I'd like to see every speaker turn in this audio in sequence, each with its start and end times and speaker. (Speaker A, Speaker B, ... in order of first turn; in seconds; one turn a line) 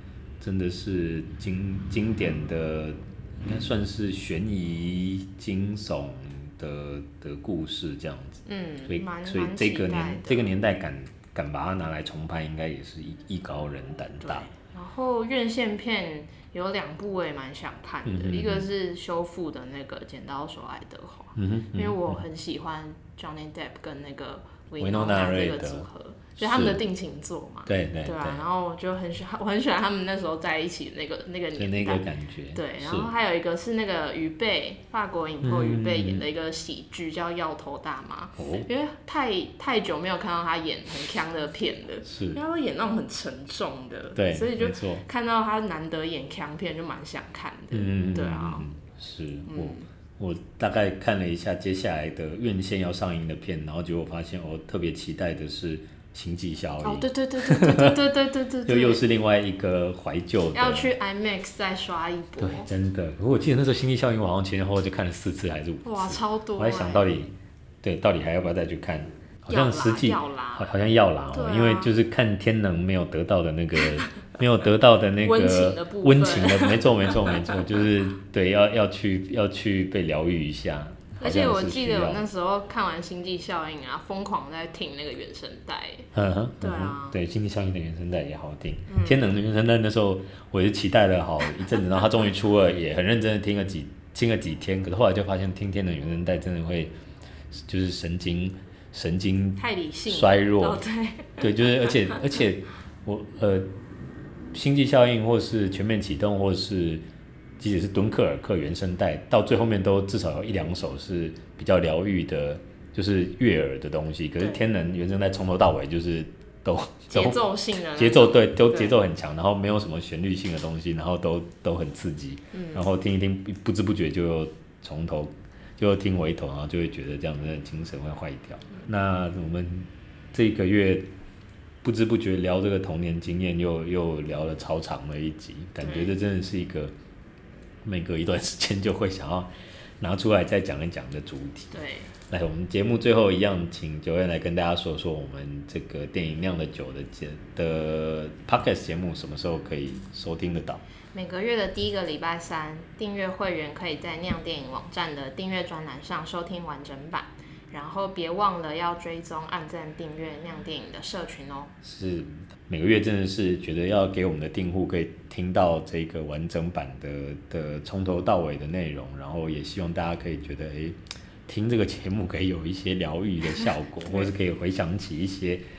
Speaker A: 0.4-14.5
Speaker B: 8.5-10.6
Speaker B: 14.2-48.7
Speaker A: 18.1-18.7
Speaker A: 21.4-22.2
Speaker A: 24.8-26.8
Speaker A: 27.7-28.4
Speaker A: 31.6-33.1
Speaker A: 35.4-36.2
Speaker A: 38.4-38.7
Speaker A: 42.1-42.4
Speaker A: 44.2-45.0
Speaker A: 47.7-58.0
Speaker B: 49.5-49.9
Speaker B: 56.8-59.0
Speaker A: 58.6-60.9
Speaker B: 60.5-62.7
Speaker A: 62.4-82.2
Speaker B: 65.8-67.2
Speaker B: 69.5-70.8
Speaker B: 71.3-71.9
Speaker B: 73.8-74.1
Speaker B: 75.2-77.6
Speaker B: 81.2-86.1
Speaker A: 86.1-96.9
Speaker B: 86.6-87.2
Speaker B: 88.9-89.3
Speaker A: 97.5-100.8
Speaker B: 99.6-102.2
Speaker A: 101.4-103.7
Speaker A: 104.5-107.0
Speaker A: 107.6-131.1
Speaker B: 114.4-114.6
Speaker B: 117.1-119.0
Speaker B: 122.5-122.8
Speaker A: 131.8-136.9
Speaker B: 135.8-136.2
Speaker A: 137.8-139.5
Speaker A: 140.0-141.7
Speaker B: 141.7-142.1
Speaker A: 142.3-150.8
Speaker B: 151.1-161.8
Speaker A: 161.8-175.6